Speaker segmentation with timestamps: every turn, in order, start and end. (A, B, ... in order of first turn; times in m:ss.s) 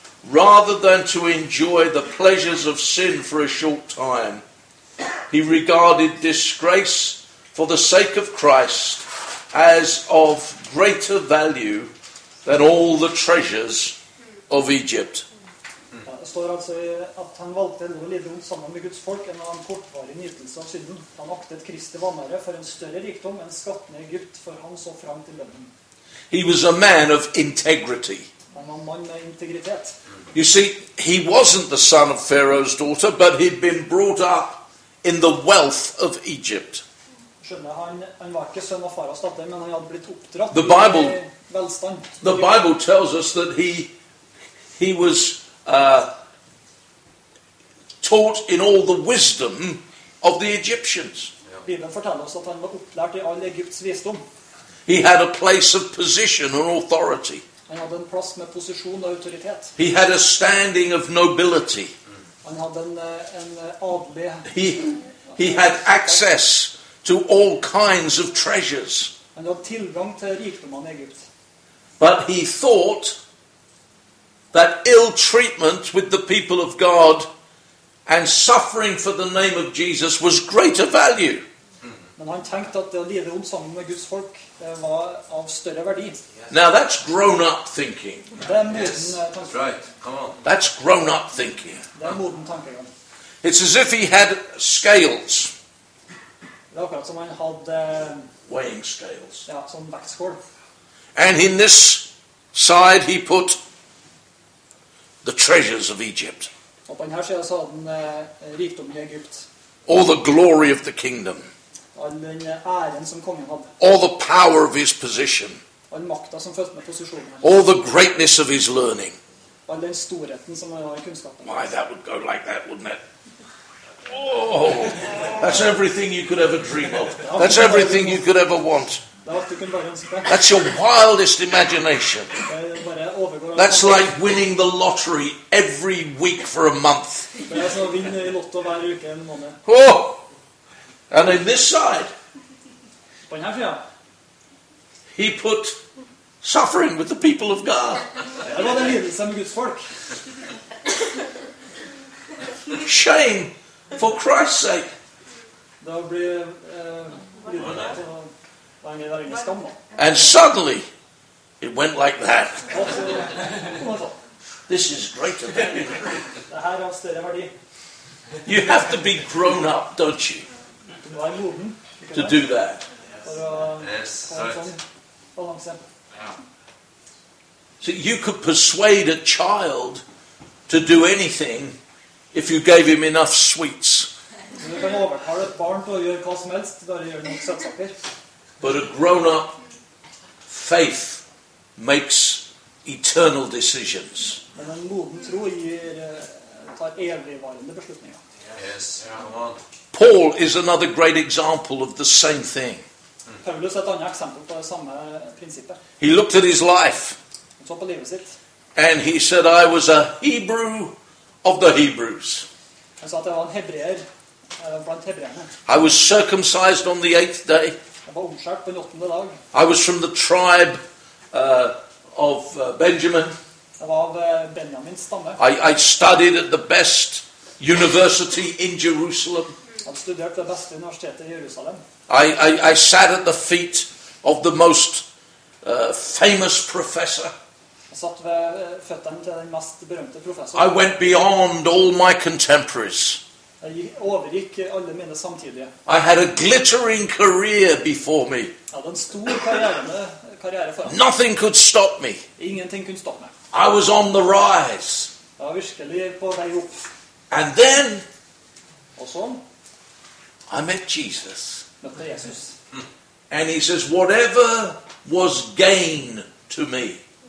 0:00.2-0:04.4 A
0:05.3-0:11.9 A
0:12.4-0:14.0 A
0:14.5-0:15.2 A
0:16.0-0:25.7 B
0:26.3-0:28.3 A
0:28.5-0:29.9 B
0:30.3-0:36.8 A
0:37.4-0:42.4 B
0:40.5-0:41.2 A
0:42.2-0:43.9 A
0:44.8-0:46.1 A
0:48.0-0:51.3 A
0:51.6-0:54.2 B
0:54.8-0:57.4 A
0:57.7-0:59.7 B
0:59.8-1:01.9 A
1:02.4-1:04.5 B
1:04.5-1:09.1 A
1:05.3-1:06.2 B
1:09.3-1:11.2 B
1:12.0-1:13.2 A
1:14.5-1:17.3 A
1:18.0-1:21.4 A
1:22.2-1:26.2 B
1:26.5-1:28.3 A
1:28.4-1:29.8 B
1:28.6-1:30.4 C
1:30.4-1:31.8 A
1:31.9-1:32.9 B
1:33.4-1:35.5 A
1:36.7-1:38.3 B
1:38.5-1:39.4 A
1:39.4-1:40.4 B
1:41.1-1:43.6 A
1:45.2-1:46.5 A
1:46.9-1:49.4 B
1:49.9-1:51.5 A
1:52.0-1:53.7 B
1:53.8-1:55.6 A
1:55.9-1:57.6 B
1:57.4-1:59.2 A
1:59.7-2:01.7 B
2:01.4-2:03.0 A
2:04.0-2:09.0 A
2:07.2-2:08.3 B
2:09.2-2:10.4 B
2:10.3-2:12.4 A
2:12.4-2:14.1 B
2:13.5-2:17.4 A
2:17.5-2:19.6 B
2:19.6-2:20.2 A
2:21.1-2:22.1 A
2:23.3-2:23.8 B
2:25.1-2:25.8 A
2:26.4-2:28.1 A
2:28.4-2:29.8 B
2:32.7-2:34.9 A
2:35.8-2:39.8 B
2:40.0-2:40.9 A
2:41.6-2:42.8 A
2:42.7-2:44.2 B
2:44.7-2:46.1 A
2:46.5-2:47.5 B
2:48.4-2:50.4 A
2:51.0-2:52.5 B
2:52.1-2:52.8 A
2:53.2-2:54.8 B
2:53.8-2:54.6 C
2:55.3-2:55.8 B
2:57.8-3:00.0 A
3:00.7-3:01.8 A
3:02.3-3:04.1 A
3:04.6-3:07.9 B
3:08.6-3:09.6 A
3:10.5-3:11.2 A
3:11.8-3:14.4 A
3:14.6-3:18.2 B
3:18.5-3:19.6 C
3:19.9-3:22.8 A
3:23.4-3:25.8 B
3:26.0-3:27.2 A
3:27.6-3:28.4 B
3:28.7-3:32.4 A
3:33.0-3:34.0 B
3:34.6-3:35.5 B
3:35.6-3:37.8 A
3:38.0-3:39.4 B
3:39.5-3:40.8 A
3:41.3-3:43.4 A
3:43.8-3:45.4 B
3:45.4-3:49.5 A
3:49.8-3:51.8 B
3:52.1-3:55.0 A
3:55.6-3:57.3 A
3:57.9-4:00.8 B
4:00.5-4:03.2 A
4:03.6-4:05.7 B
4:05.8-4:08.5 A
4:08.7-4:11.0 B
4:10.8-4:12.2 A
4:12.4-4:13.3 B
4:13.5-4:15.1 A
4:15.4-4:16.9 B
4:17.3-4:18.0 A
4:19.0-4:19.4 B
4:20.5-4:21.6 A
4:21.8-4:22.5 B
4:23.3-4:27.0 A